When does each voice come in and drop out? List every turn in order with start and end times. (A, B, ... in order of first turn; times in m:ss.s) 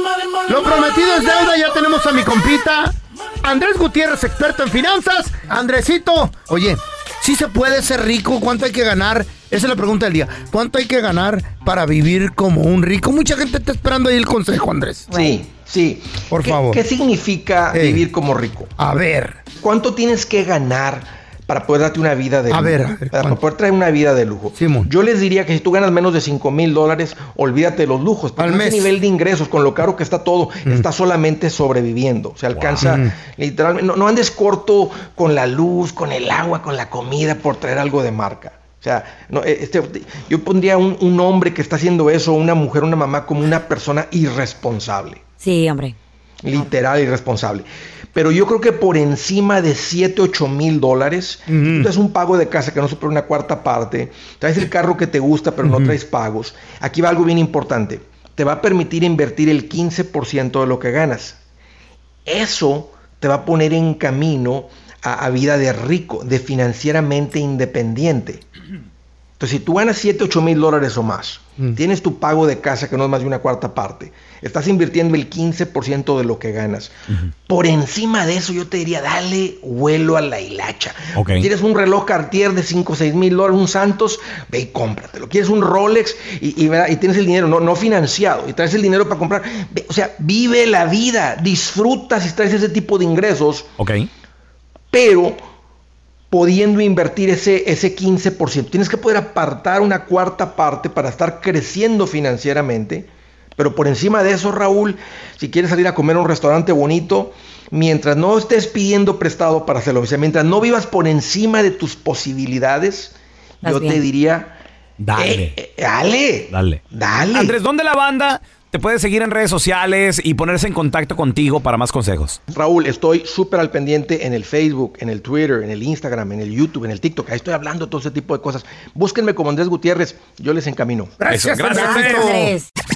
0:00.5-0:15.2 A
0:15.1-0:15.4 B
0:15.1-0:18.7 C
0:16.3-0:16.8 A
0:17.7-0:18.1 A
0:18.8-0:19.4 A
0:19.6-0:45.2 C
0:22.5-0:23.4 A
0:24.5-0:24.9 A
0:28.4-0:28.9 A
0:32.5-0:32.9 D
0:32.8-0:33.1 A
0:45.4-0:46.0 B
0:46.4-1:01.4 C
0:51.5-0:51.9 A
0:55.6-0:56.0 A
1:02.3-1:08.4 C
1:09.4-1:16.9 C
1:17.5-1:33.7 C
1:21.2-1:21.5 D
1:33.8-1:34.1 D
1:34.9-1:35.4 C
1:36.3-1:54.6 C
1:53.6-1:54.0 B
1:55.0-1:55.5 D
1:55.2-1:57.6 C
1:56.5-1:56.8 D
1:57.3-2:02.4 D
2:02.5-2:11.1 C
2:11.2-2:12.5 A
2:11.3-2:12.4 D
2:11.7-2:12.7 B